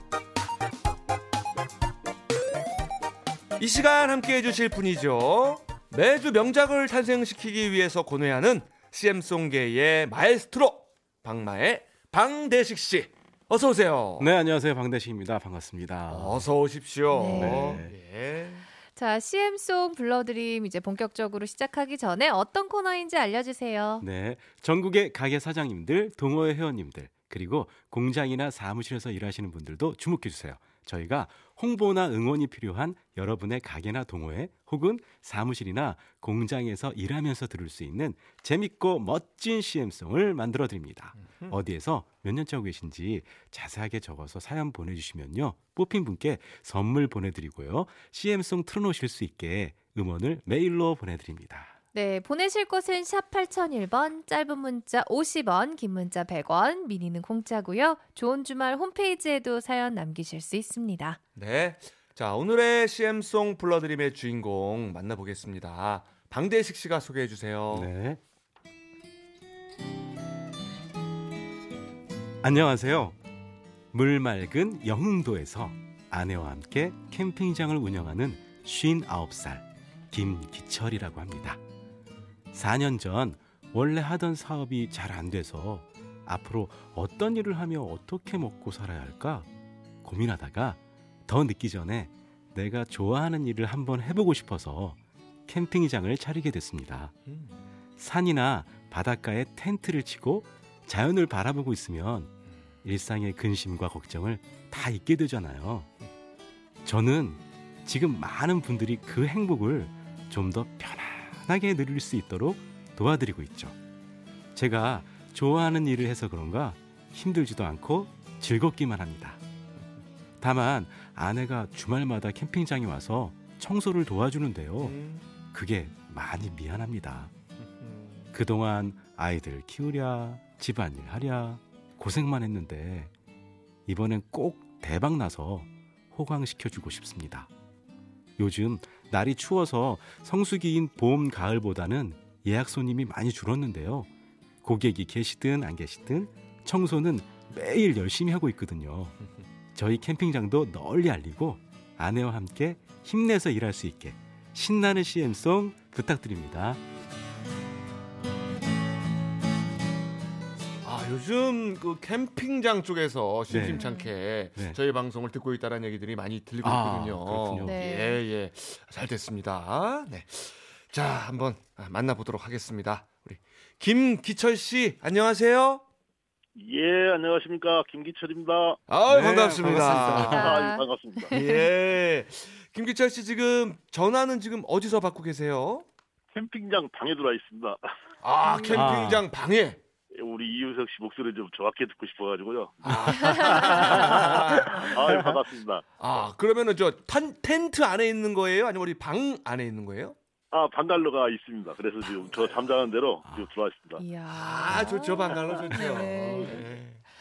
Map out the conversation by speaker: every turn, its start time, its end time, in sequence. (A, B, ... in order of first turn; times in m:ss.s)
0:03.6-0:14.3 A
0:14.2-0:16.5 B
0:16.1-0:18.6 A
0:17.1-0:17.8 C
0:17.3-0:17.9 B
0:19.0-0:24.0 C
0:24.0-0:51.7 B
0:41.2-0:41.6 A
0:51.9-1:01.2 C
1:01.4-1:07.9 A
1:07.7-1:08.2 B
1:12.4-1:13.2 B
1:13.9-1:21.6 B
1:22.5-1:29.5 B
1:30.0-1:37.1 B
1:37.3-1:37.6 A
1:38.0-1:42.3 B
1:42.8-1:45.9 B
1:46.8-1:53.7 B
1:54.5-1:59.4 B
2:00.4-2:05.0 B
2:04.8-2:05.3 A
2:05.5-2:07.3 B
2:07.6-2:08.3 A
2:08.3-2:13.1 B
2:13.9-2:17.5 B
2:18.4-2:24.1 B
2:24.6-2:29.2 B
2:29.7-2:36.8 B
2:40.8-2:55.8 A
2:43.5-2:43.8 B
2:43.5-2:44.1 C
2:46.6-2:47.8 B
2:47.6-2:48.2 C
2:56.6-2:58.8 D
2:58.9-3:00.4 A
2:59.1-3:00.6 B
3:00.1-3:01.7 C
3:00.1-3:01.3 D
3:01.3-3:05.9 A
3:06.3-3:07.8 D
3:08.2-3:09.8 A
3:08.4-3:08.9 C
3:08.7-3:09.2 B
3:10.1-3:15.8 D
3:12.8-3:15.4 A
3:13.2-3:13.7 C
3:16.0-3:20.2 A
3:20.5-3:24.0 D
3:24.0-3:26.6 C
3:24.3-3:27.0 A